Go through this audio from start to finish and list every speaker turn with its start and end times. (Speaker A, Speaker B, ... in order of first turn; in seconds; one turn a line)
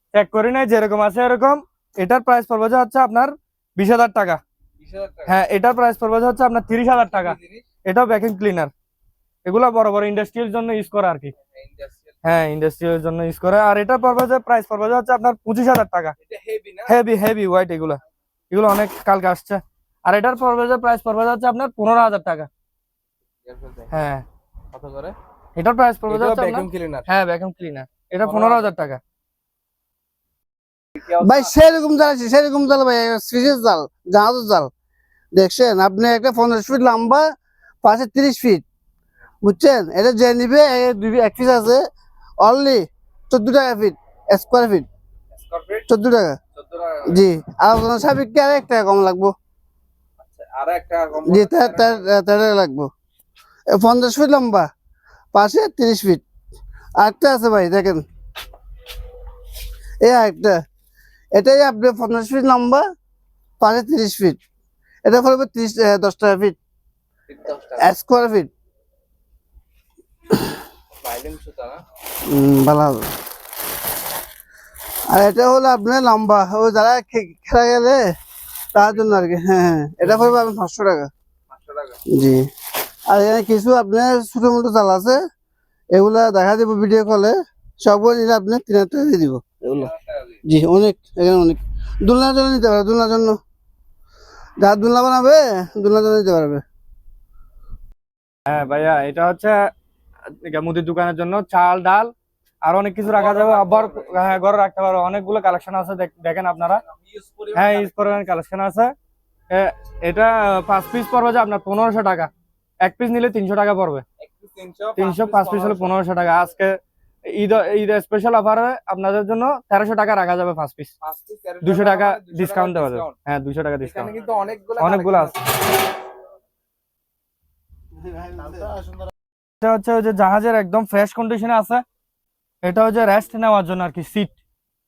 Speaker A: 0.1-4.4
Speaker B: 4.8-5.4
Speaker A: 5.2-8.7
Speaker B: 6.9-7.7
Speaker A: 9.4-11.3
Speaker B: 11.5-12.1
Speaker A: 12.2-16.1
Speaker B: 16.2-17.0
Speaker A: 16.9-18.0
Speaker A: 18.5-22.5
Speaker B: 23.4-23.9
Speaker A: 23.9-24.2
Speaker B: 24.7-25.1
Speaker A: 25.5-29.0
Speaker B: 26.1-27.1
Speaker B: 28.2-28.7
Speaker B: 31.0-31.5
Speaker C: 31.0-34.7
Speaker C: 35.3-37.3
Speaker C: 37.8-38.6
Speaker C: 39.4-41.8
Speaker C: 42.4-44.9
Speaker B: 45.3-45.9
Speaker C: 45.9-46.4
Speaker B: 46.5-47.3
Speaker C: 47.1-49.3
Speaker B: 50.2-52.1
Speaker C: 51.2-52.9
Speaker C: 53.7-54.7
Speaker C: 55.3-56.2
Speaker C: 57.0-58.0
Speaker C: 60.0-60.6
Speaker C: 61.3-62.8
Speaker C: 63.6-64.4
Speaker C: 65.0-66.6
Speaker B: 67.3-67.9
Speaker C: 67.8-68.5
Speaker B: 70.9-71.8
Speaker C: 72.3-73.1
Speaker C: 75.1-78.1
Speaker C: 78.7-81.1
Speaker B: 78.7-79.0
Speaker B: 81.5-82.0
Speaker C: 82.0-82.5
Speaker C: 83.1-85.2
Speaker C: 85.9-89.9
Speaker B: 89.8-90.4
Speaker C: 90.5-93.4
Speaker C: 94.6-96.6
Speaker A: 98.5-99.6
Speaker A: 100.3-102.1
Speaker A: 102.6-106.8
Speaker B: 103.0-104.5
Speaker B: 106.8-108.2
Speaker A: 107.5-108.9
Speaker A: 109.5-112.3
Speaker A: 112.8-114.0
Speaker B: 114.2-116.0
Speaker A: 115.0-120.9
Speaker B: 121.0-123.1
Speaker A: 121.6-124.1
Speaker B: 123.8-125.4
Speaker A: 124.8-125.3
Speaker C: 128.3-128.6
Speaker A: 129.6-131.8
Speaker A: 132.6-134.3